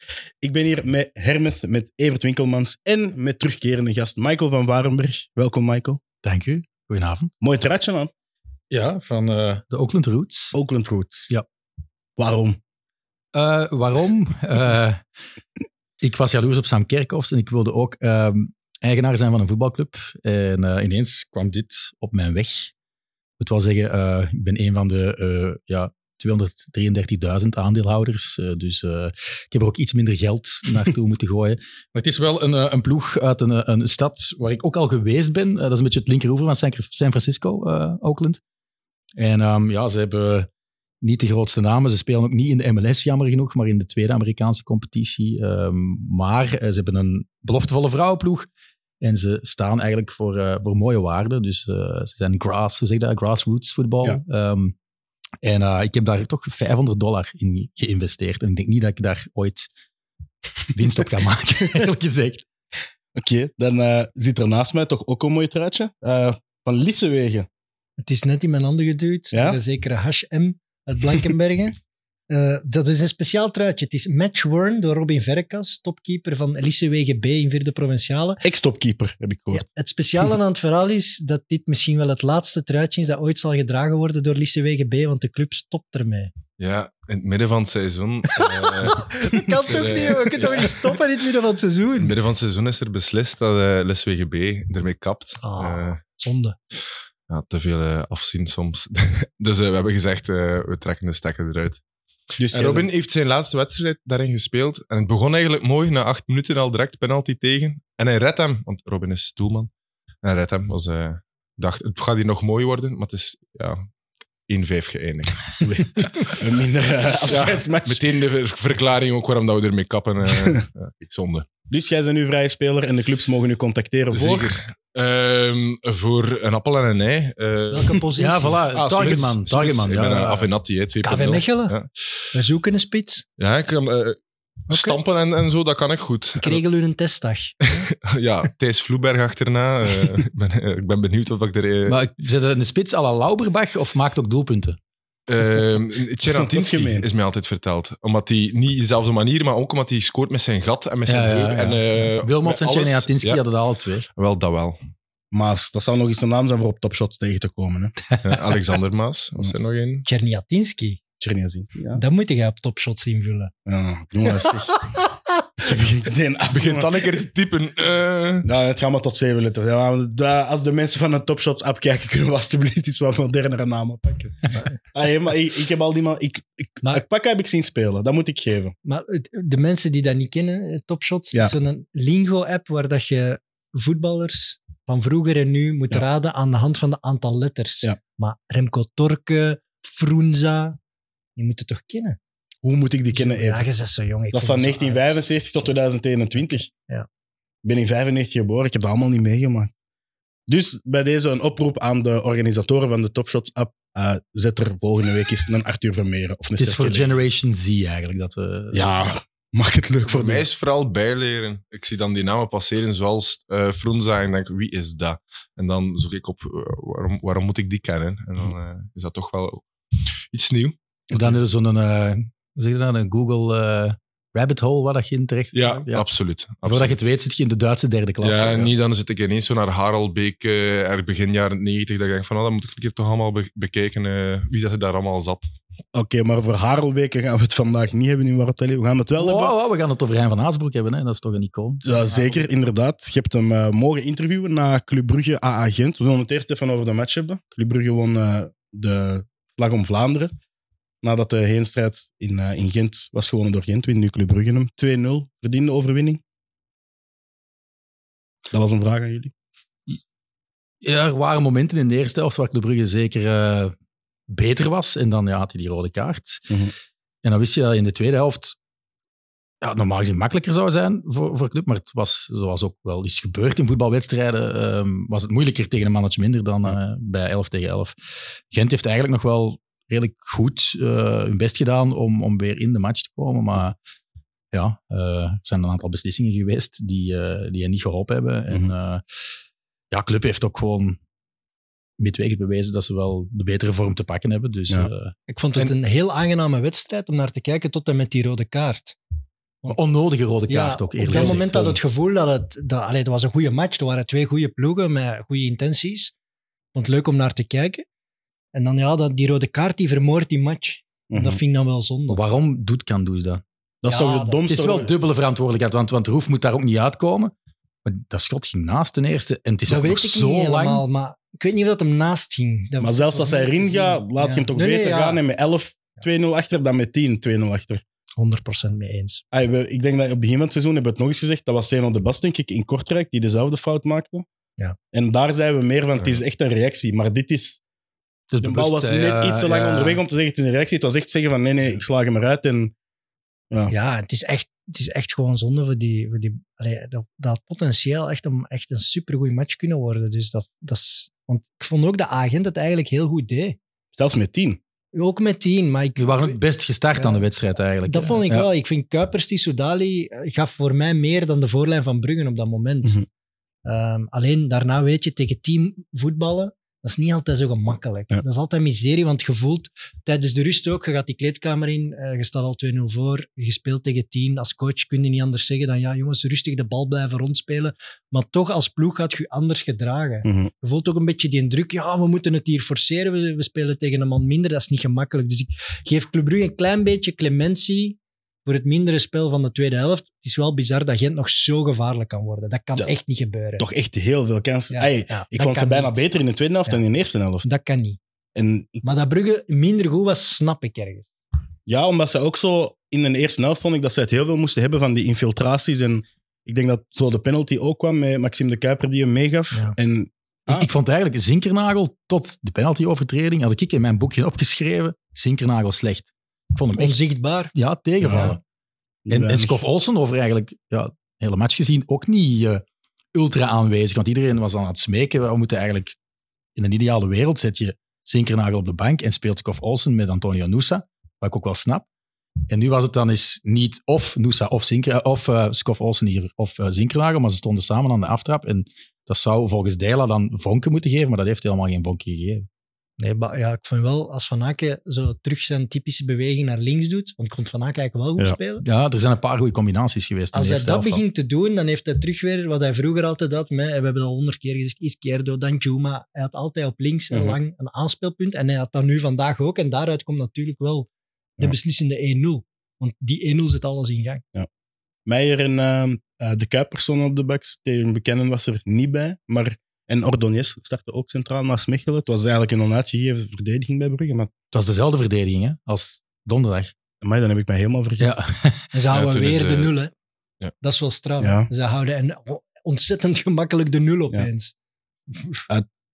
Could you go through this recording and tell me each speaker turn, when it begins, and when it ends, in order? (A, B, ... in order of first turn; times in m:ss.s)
0:00.4-0:06.0 A
0:06.2-0:07.3 B
0:07.4-0:08.1 A
0:08.7-0:10.6 B
0:10.5-0:11.3 A
0:12.2-0:12.6 A
0:13.3-0:15.0 B
0:16.0-0:22.7 B
0:23.4-0:38.4 B
0:39.2-0:40.5 B
0:41.0-0:48.5 B
0:49.0-0:54.8 B
0:55.4-0:59.7 B
1:00.7-1:02.5 B
1:03.2-1:07.5 A
1:08.0-1:11.8 C
1:09.3-1:09.6 A
1:12.3-1:18.4 C
1:18.4-1:19.6 A
1:19.5-1:26.3 C
1:26.6-1:31.0 D
1:28.8-1:32.2 C
1:32.0-1:36.0 D
1:35.4-1:36.6 C
1:37.3-1:41.8 D
1:42.4-1:42.9 A
1:42.5-1:49.7 D
1:50.2-1:53.8 D
1:54.5-1:56.3 D
1:55.6-1:58.0 A
1:57.2-2:01.4 D
2:01.7-2:04.7 A
2:04.1-2:08.0 D
2:07.7-2:08.7 C
2:08.2-2:10.5 B
2:08.7-2:11.9 D
2:11.0-2:11.8 C
2:12.3-2:13.2 C
2:13.4-2:14.2 D
2:14.7-2:15.0 C
2:14.7-2:16.6 D
2:16.4-2:17.9 C
2:17.7-2:22.0 D
2:21.9-2:24.8 B
2:25.3-2:33.4 D
2:26.2-2:27.1 A
2:31.1-2:34.0 B
2:34.2-2:34.8 D
2:35.3-2:37.9 A
2:38.2-2:40.1 D
2:40.0-2:41.0 C
2:41.2-2:42.0 A
2:41.9-2:43.5 C
2:43.7-2:44.8 A
2:44.3-2:45.2 C
2:45.6-2:47.0 A
2:46.5-2:48.5 D
2:48.4-2:58.8 A
2:58.8-3:10.8 C
3:11.4-3:12.2 C
3:12.6-3:13.7 A
3:13.1-3:15.2 C
3:14.3-3:16.7 A
3:16.4-3:17.0 C
3:17.6-3:19.7 A
3:20.5-3:27.2 A
3:26.6-3:29.1 B
3:28.7-3:30.4 A
3:30.0-3:39.6 D
3:40.3-3:40.8 D
3:41.1-3:46.1 B
3:45.5-3:47.0 D
3:46.6-3:48.7 B
3:48.2-3:55.5 D
3:55.9-3:59.5 A
3:59.2-4:02.4 B
4:01.8-4:10.3 A
4:11.0-4:16.2 A
4:18.5-4:19.3 A
4:20.8-4:23.8 B
4:24.3-4:26.6 B
4:27.2-4:28.6 B
4:29.6-4:38.0 B
4:38.5-4:43.8 B
4:44.5-4:49.0 B
4:49.9-4:51.0 B
4:52.0-4:55.7 B
4:55.3-4:59.0 C
4:59.7-5:01.8 B
5:00.5-5:06.1 C
5:01.1-5:01.5 A
5:06.7-5:07.8 C
5:08.5-5:12.2 C
5:11.1-5:11.4 A
5:12.1-5:13.4 B
5:13.8-5:14.9 A
5:13.9-5:14.5 C
5:14.5-5:17.3 B
5:17.8-5:20.8 B
5:19.7-5:25.2 C
5:22.8-5:27.8 A
5:28.2-5:29.2 C
5:29.3-5:34.2 A
5:34.9-5:37.6 A
5:36.0-5:36.2 D
5:38.3-5:40.0 B
5:38.4-5:42.7 A
5:43.7-5:53.6 C
5:53.9-5:54.6 A
5:54.9-5:56.4 C
5:56.0-5:58.5 B
5:56.9-5:57.2 C
5:57.9-6:03.0 C
6:03.6-6:33.6 C
6:20.2-6:20.5 A
6:33.6-6:37.5 A
6:34.7-6:36.0 C
6:37.4-6:38.0 C
6:38.4-6:38.8 A
6:38.8-6:41.1 C
6:41.7-6:50.7 A
6:50.5-6:57.0 B
6:56.7-6:57.5 C
6:57.5-6:58.4 B
6:58.0-6:58.4 A
6:58.1-6:58.4 C
6:59.0-6:59.6 A
6:59.1-7:06.0 B
7:06.6-7:11.9 B
7:12.5-7:22.5 B
7:23.0-7:28.6 C
7:28.6-7:31.0 B
7:30.3-7:44.2 C
7:37.1-7:37.4 A
7:45.1-7:54.3 A
7:54.5-7:56.7 B
7:57.0-7:58.2 A
7:58.0-7:58.7 B
7:58.7-7:59.9 C
7:58.9-7:59.7 D
8:00.6-8:04.5 C
8:01.2-8:01.5 A
8:05.1-8:05.4 C